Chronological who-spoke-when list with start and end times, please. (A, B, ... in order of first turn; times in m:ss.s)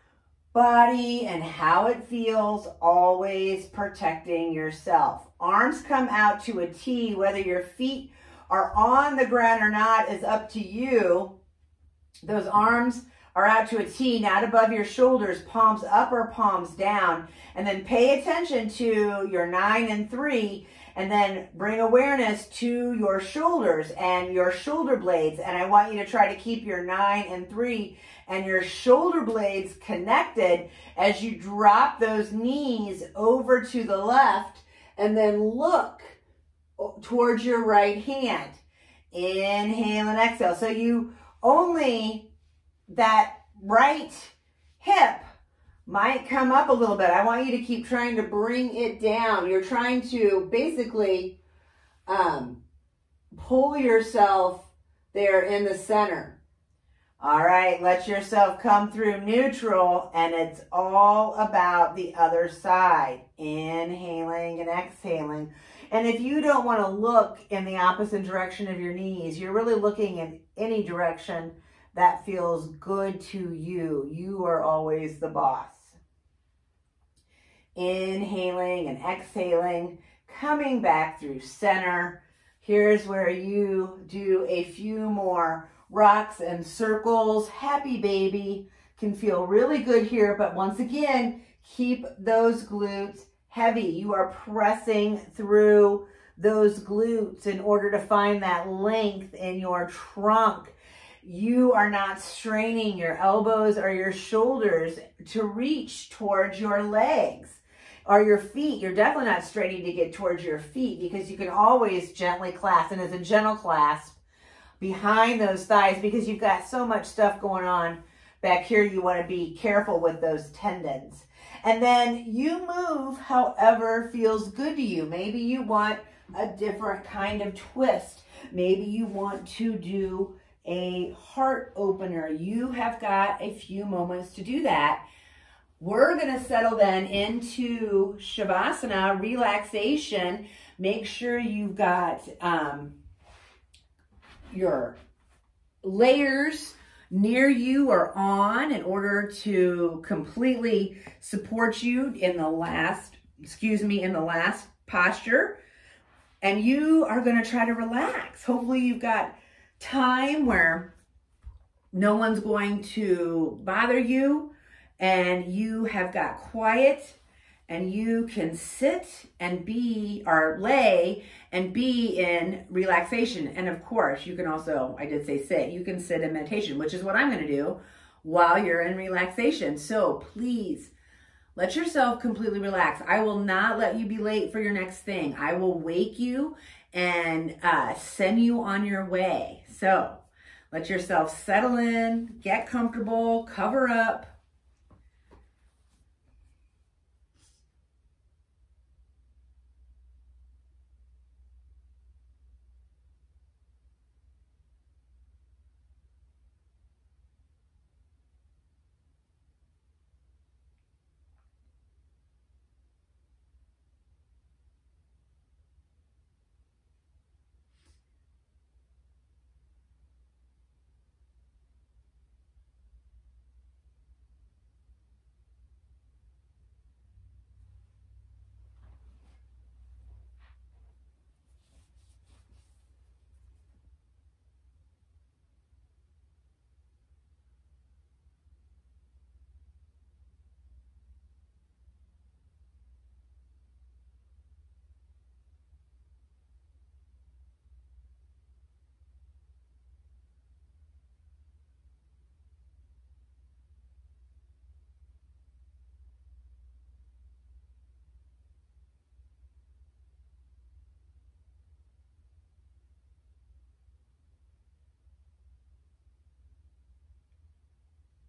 0:00.5-0:11.3 A
0:12.2-0:36.2 A
0:36.8-0:42.3 A
0:42.9-0:45.2 A
0:45.8-0:51.4 A
0:52.1-0:52.6 A
0:53.3-0:56.4 A
0:57.2-1:16.0 A
1:17.7-1:54.2 A
1:54.8-2:15.0 A
2:15.8-2:22.9 A
2:24.5-2:25.0 A
2:25.8-2:35.6 A
2:36.4-2:40.9 A
2:41.9-3:00.9 A
3:01.5-3:14.3 A